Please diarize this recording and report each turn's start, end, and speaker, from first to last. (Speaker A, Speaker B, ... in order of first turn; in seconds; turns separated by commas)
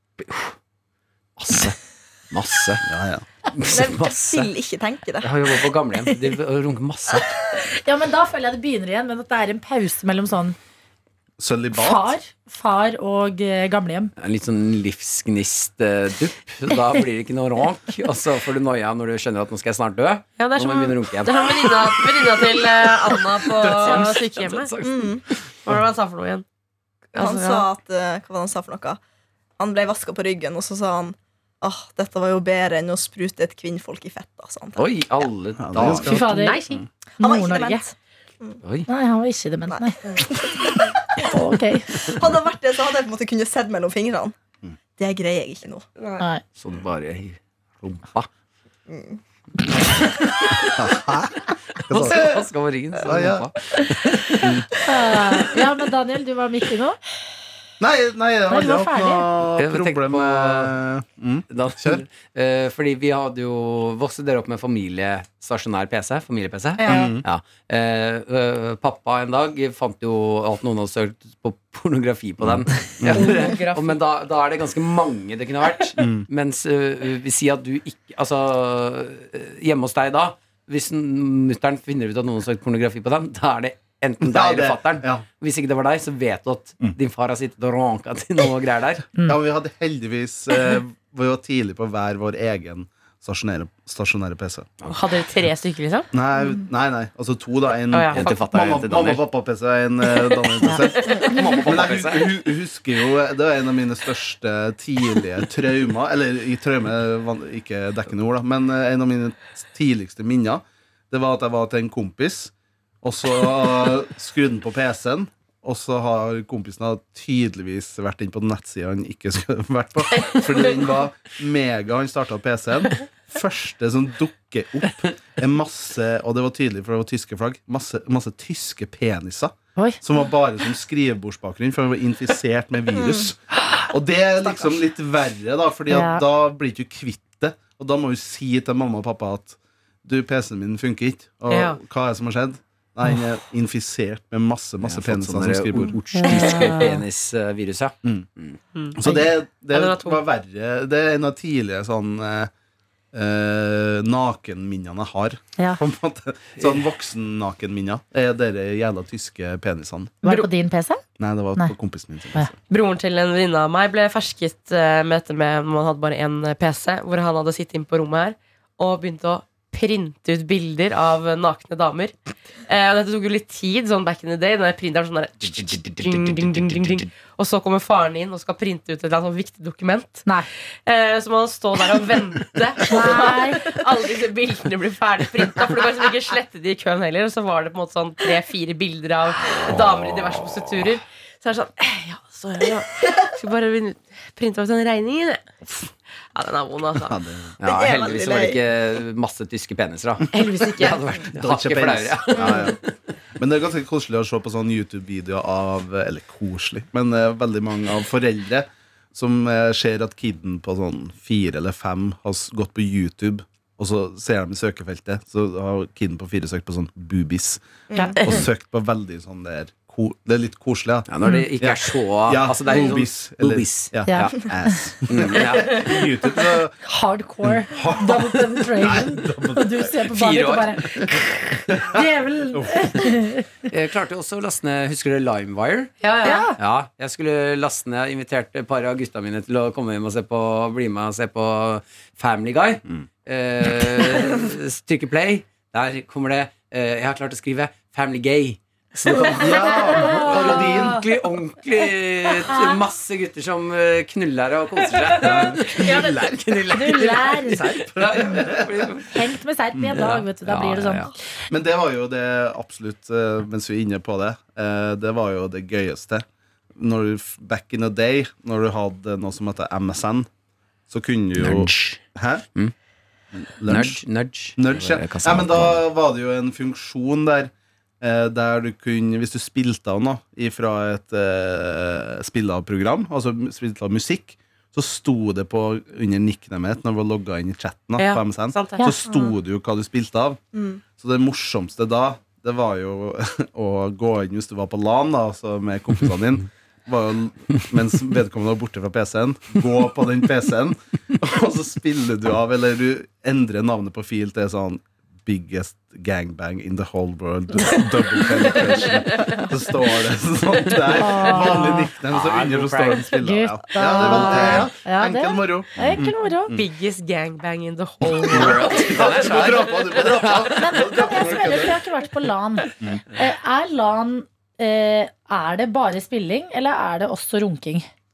Speaker A: 1.4-1.8, Speaker A: 2.3-2.9, Speaker B: 2.9-3.2, Speaker A: 3.5-4.5, Speaker C: 3.7-5.3, Speaker A: 5.2-7.3, Speaker D: 7.8-10.6, Speaker B: 11.4-12.1, Speaker D: 11.8-14.1, Speaker A: 14.2-22.5, Speaker E: 20.4-24.7, Speaker A: 23.1-25.4, Speaker C: 24.8-25.2, Speaker E: 25.6-26.4, Speaker E: 27.1-27.7, Speaker C: 27.2-29.0, Speaker C: 29.6-34.9, Speaker A: 34.8-36.3, Speaker B: 35.6-36.9, Speaker D: 36.0-36.6, Speaker E: 36.3-36.8, Speaker D: 37.2-37.8, Speaker C: 37.2-38.6, Speaker D: 38.9-40.0, Speaker C: 39.7-41.3, Speaker D: 41.2-42.1, Speaker C: 42.0-44.4, Speaker C: 45.0-46.2, Speaker A: 46.6-48.3, Speaker C: 48.9-49.2, Speaker A: 50.2-50.8, Speaker B: 50.8-52.5, Speaker A: 51.9-54.6, Speaker B: 53.0-53.5, Speaker B: 54.4-54.7, Speaker D: 54.8-57.0, Speaker B: 57.8-62.0, Speaker D: 58.5-59.3, Speaker A: 59.6-60.7, Speaker A: 61.5-89.1, Speaker C: 66.8-67.1, Speaker B: 66.9-67.2, Speaker B: 72.4-73.5, Speaker E: 73.1-74.0, Speaker B: 76.0-76.3, Speaker B: 84.2-85.2, Speaker B: 89.3-94.9, Speaker E: 94.9-96.1, Speaker B: 96.1-146.0, Speaker E: 97.9-98.3, Speaker A: 98.1-99.3, Speaker A: 101.2-102.3, Speaker E: 120.2-120.8, Speaker C: 132.9-133.3, Speaker D: 135.9-136.2, Speaker E: 141.5-141.8, Speaker A: 144.8-148.6, Speaker D: 146.2-146.9, Speaker E: 146.3-147.0, Speaker E: 148.8-149.0, Speaker B: 148.9-152.5, Speaker E: 149.7-150.2, Speaker B: 153.1-160.2, Speaker D: 160.2-161.0, Speaker E: 160.2-160.5, Speaker B: 161.2-162.6, Speaker E: 162.7-172.2, Speaker E: 172.7-197.2, Speaker A: 175.4-177.1, Speaker D: 182.9-183.7, Speaker B: 197.0-197.5, Speaker A: 197.6-202.9, Speaker C: 197.6-198.6, Speaker E: 200.3-201.0, Speaker B: 201.4-202.8, Speaker C: 202.4-202.7, Speaker B: 203.4-217.7, Speaker B: 218.2-226.8, Speaker A: 221.1-224.3, Speaker D: 224.1-224.8, Speaker A: 225.1-226.1, Speaker D: 226.9-231.2, Speaker B: 227.4-230.1, Speaker A: 230.1-231.2, Speaker D: 231.8-233.5, Speaker B: 232.5-233.0, Speaker A: 233.7-236.0, Speaker E: 236.0-236.5, Speaker D: 236.2-236.6, Speaker A: 236.6-259.2, Speaker B: 249.1-251.0, Speaker D: 249.6-251.0, Speaker D: 252.4-252.8, Speaker B: 255.2-256.1, Speaker D: 256.7-258.4, Speaker B: 258.0-258.9, Speaker D: 259.1-261.1, Speaker A: 259.9-261.1, Speaker B: 261.5-270.3, Speaker B: 270.9-272.4, Speaker A: 271.4-272.0, Speaker B: 273.3-274.0, Speaker A: 273.7-275.8, Speaker B: 274.6-290.4, Speaker E: 288.0-288.9, Speaker C: 290.5-290.8, Speaker B: 291.0-316.7, Speaker E: 308.9-309.4, Speaker D: 310.9-311.9, Speaker A: 311.0-313.1, Speaker D: 313.1-316.5, Speaker A: 313.9-314.7, Speaker A: 315.8-316.1, Speaker E: 316.5-319.4, Speaker B: 318.1-321.8, Speaker A: 318.1-321.1, Speaker D: 320.6-327.9